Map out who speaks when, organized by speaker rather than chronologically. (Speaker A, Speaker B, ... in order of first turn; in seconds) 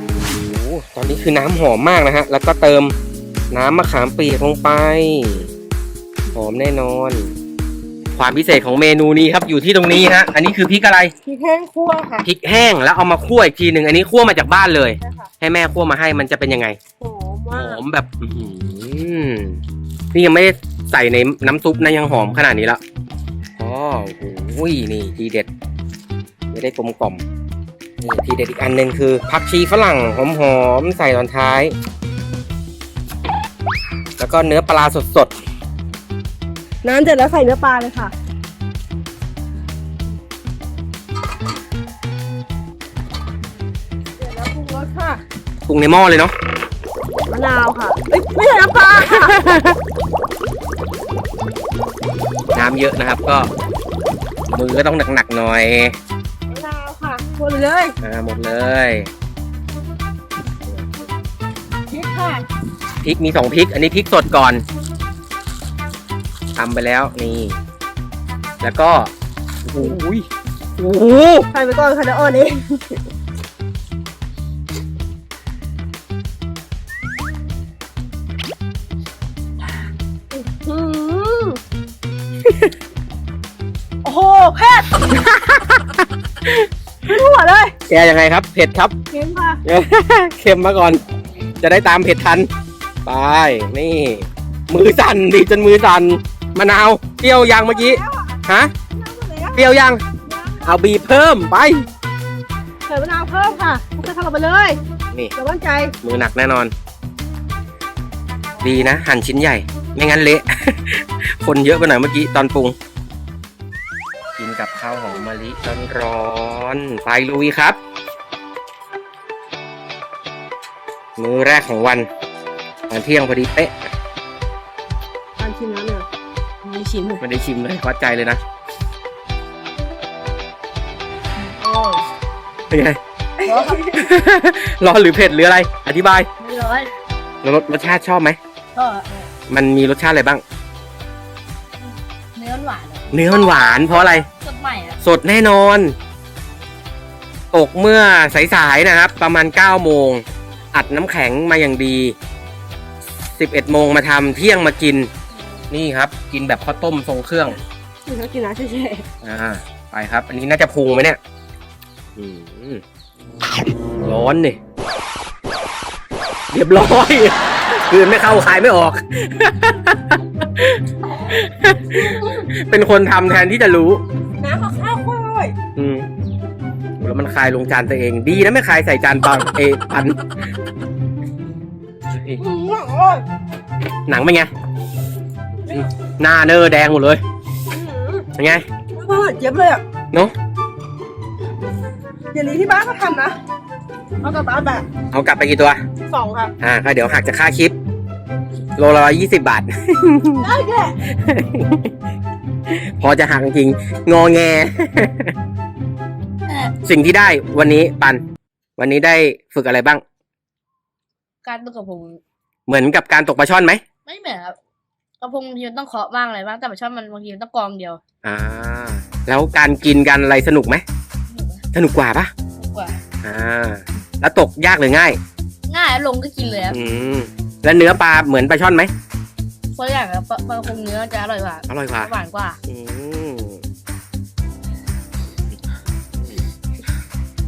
Speaker A: 0.4-2.9, 3.5-5.5, 6.3-7.3, 8.2-11.1, 12.2-16.8, 17.5-19.6, 20.1-22.8, 23.6-25.5, 26.5-27.2, 28.0-31.7, 34.2-35.3, 45.6-46.3, 49.1-49.8, 52.5-53.5, 54.5-56.0, 58.0-59.1, 63.0-64.6, 66.5-67.6, 68.6-69.1, 69.7-70.3, 70.8-71.5, 82.5-82.7, 85.2-85.8, 87.9-88.9, 89.6-91.0, 91.6-92.5, 93.0-98.7, 99.5-100.0, 100.6-101.8, 106.0-106.7, 108.6-112.8, 114.4-117.8, 121.2-122.1, 122.9-123.7, 127.2-128.4, 132.7-133.0, 133.9-136.3, 137.4-138.4, 139.5-140.4, 143.1-144.3, 145.0-145.9, 147.5-152.1, 153.4-155.1, 155.7-157.6, 159.2-161.2, 162.2-162.8, 164.0-164.6, 166.5-174.0, 175.8-176.1, 177.0-180.4, 182.1-182.4, 184.1-184.5, 185.7-187.2, 188.3-188.6, 195.1-195.8, 196.6-197.7, 198.8-200.5, 201.1-201.9, 202.7-205.3, 206.8-208.2, 208.8-210.0, 212.7-213.8, 218.2-220.8, 221.7-222.3, 223.2-225.2, 226.7-228.9, 231.7-232.1, 232.7-233.6
Speaker B: 11.2-12.3, 15.0-15.3, 17.0-17.8, 36.8-38.1, 44.2-45.2, 47.3-49.5, 56.5-57.9, 60.7-60.9, 61.9-62.4, 71.5-73.0, 80.3-81.6, 84.0-85.1, 87.0-87.7, 89.1-89.6, 97.5-98.3, 98.9-100.7, 102.9-104.8, 105.3-105.9, 125.4-126.0, 133.4-134.1, 158.1-159.1, 171.9-172.4, 174.4-175.5, 182.4-183.2, 187.7-188.3, 188.9-189.8, 192.3-193.3, 194.2-194.9, 196.1-196.5, 200.4-201.0
Speaker C: 126.6-127.2, 131.6-132.0, 133.4-133.9, 136.4-136.9, 138.7-139.3, 142.3-143.2, 144.2-145.0, 211.4-212.2, 214.1-214.6, 215.2-218.0, 221.3-221.6, 222.6-223.0, 225.7-226.8, 229.8-232.6